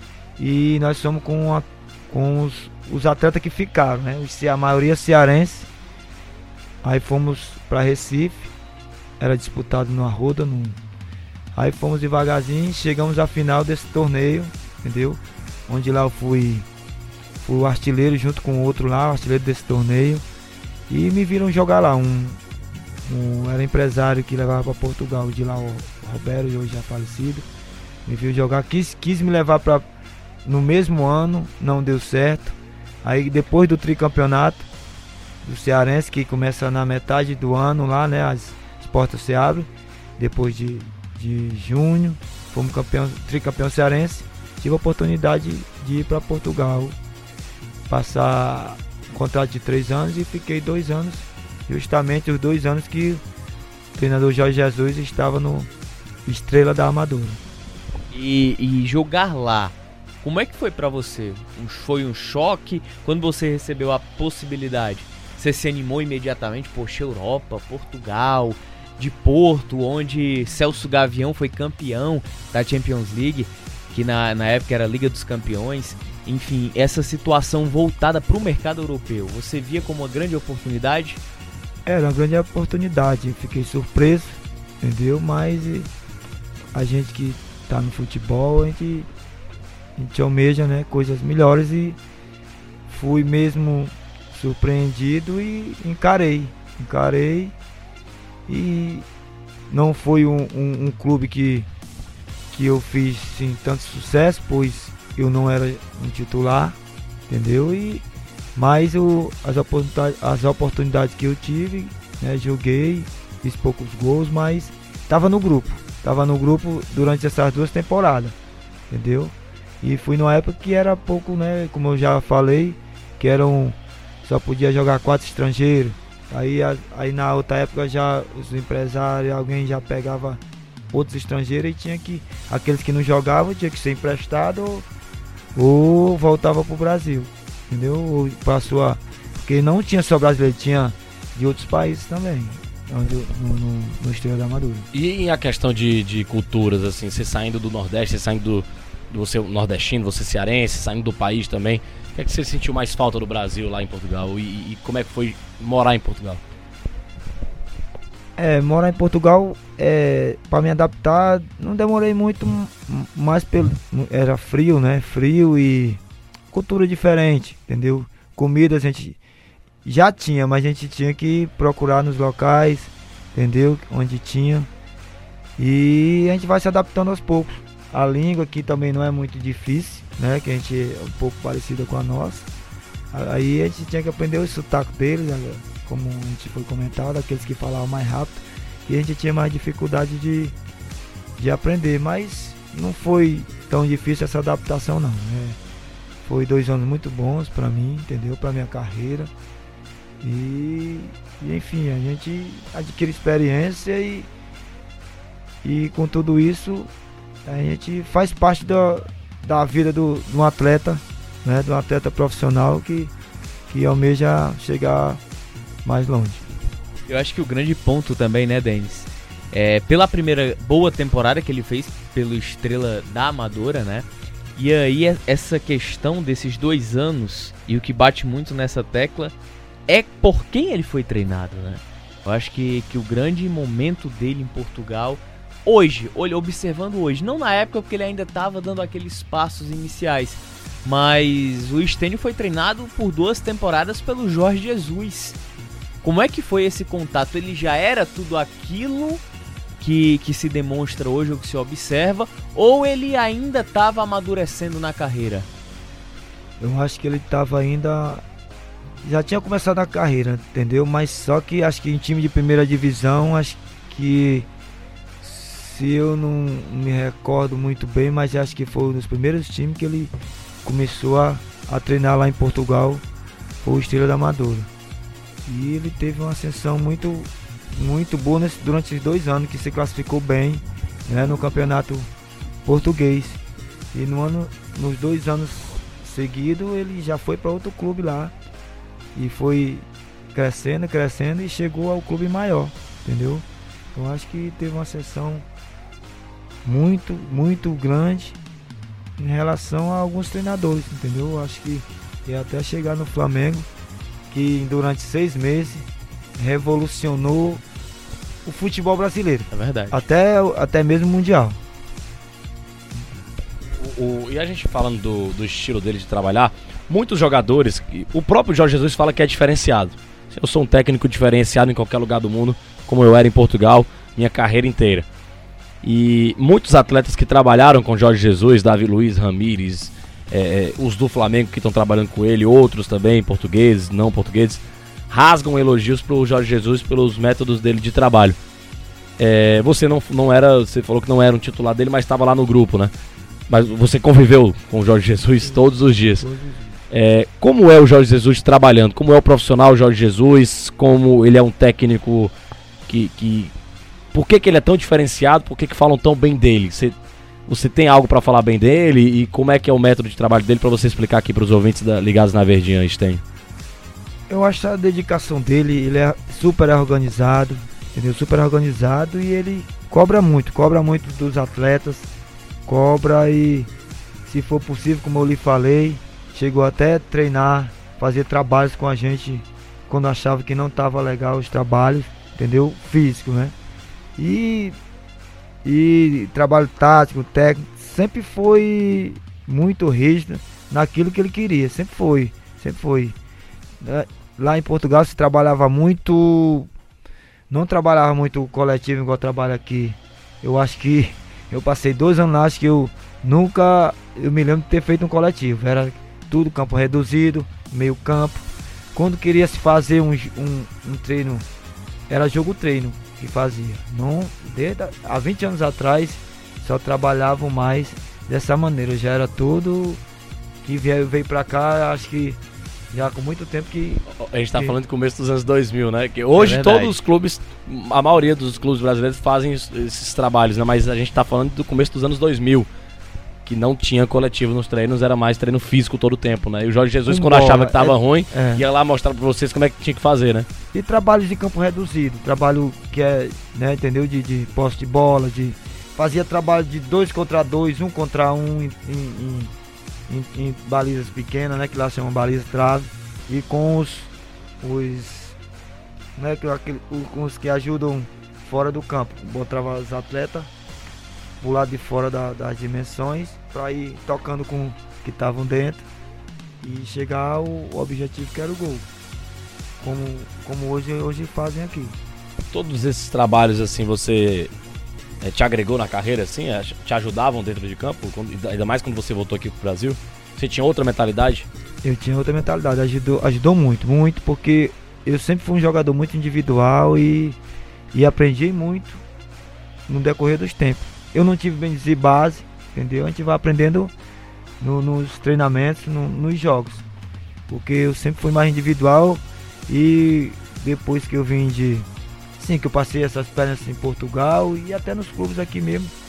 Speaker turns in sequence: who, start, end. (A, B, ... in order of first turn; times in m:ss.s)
0:00.4-0:05.7 A
0:06.8-0:08.5 A
0:09.2-0:10.8 A
0:11.6-0:16.7 A
0:17.4-0:20.2 A
0:20.9-0:22.4 A
0:23.0-0:27.4 A
0:28.1-0:29.8 A
0:30.4-0:34.7 A
0:35.4-0:47.0 A
0:47.9-0:53.2 A
0:54.0-0:55.7 A
0:56.3-0:57.4 A
0:58.1-1:21.2 B
1:21.9-1:25.9 A
1:26.7-1:29.1 A
1:30.0-1:32.0 A
1:32.9-1:37.5 A
1:38.5-1:39.1 A
1:39.7-1:41.7 A
1:42.5-1:46.8 A
1:47.3-1:48.0 A
1:48.6-1:58.4 A
1:58.9-2:10.4 A
2:10.9-2:14.9 A
2:15.6-2:24.9 A
2:24.9-2:36.4 C
2:38.4-2:46.0 A
2:46.5-2:49.2 A
2:49.8-2:54.7 A
2:55.6-3:02.5 A
3:03.1-3:10.5 A
3:11.4-3:15.6 A
3:16.2-3:19.3 A
3:20.2-3:24.3 A
3:25.6-3:26.9 A
3:27.5-3:33.1 A
3:33.7-3:35.2 A
3:35.8-3:36.4 A
3:37.1-3:49.3 B
3:49.9-4:05.4 B
4:06.0-4:09.2 B
4:09.8-4:15.5 B
4:16.6-4:18.2 A
4:19.0-4:24.5 A
4:25.2-4:30.1 A
4:30.6-4:33.0 A
4:33.6-4:34.7 A
4:35.5-4:42.1 A
4:42.6-4:43.4 A
4:43.9-4:48.3 A
4:49.2-4:55.4 A
4:56.6-4:58.4 A
4:59.2-5:03.7 A
5:04.3-5:05.9 A
5:06.4-5:07.6 A
5:08.4-5:11.6 A
5:09.5-5:10.0 B
5:13.8-5:25.1 C
5:25.8-5:38.4 C
5:39.2-5:42.9 C
5:43.5-5:46.3 C
5:45.4-5:46.7 A
5:46.9-5:52.3 C
5:52.9-5:53.5 C
5:54.1-5:56.9 C
5:57.5-6:03.2 C
6:04.3-6:12.1 A
6:12.7-6:13.7 A
6:14.3-6:23.5 A
6:24.2-6:24.8 A
6:25.6-6:33.2 A
6:33.8-6:36.7 A
6:37.5-6:51.4 A
6:52.1-7:00.0 A
7:00.6-7:02.4 A
7:02.9-7:04.0 A
7:04.1-7:12.7 C
7:06.3-7:07.0 B
7:13.4-7:20.5 C
7:17.1-7:18.6 A
7:20.7-7:29.5 A
7:30.1-7:35.4 A
7:36.2-7:40.5 A
7:41.4-7:45.9 A
7:46.6-7:48.8 A
7:49.8-7:52.0 A
7:52.5-7:54.5 C
7:55.2-8:01.5 C
8:01.8-8:07.4 A
8:07.9-8:09.0 A
8:09.9-8:13.9 A
8:14.6-8:16.8 A
8:17.5-8:21.9 A
8:22.4-8:25.9 A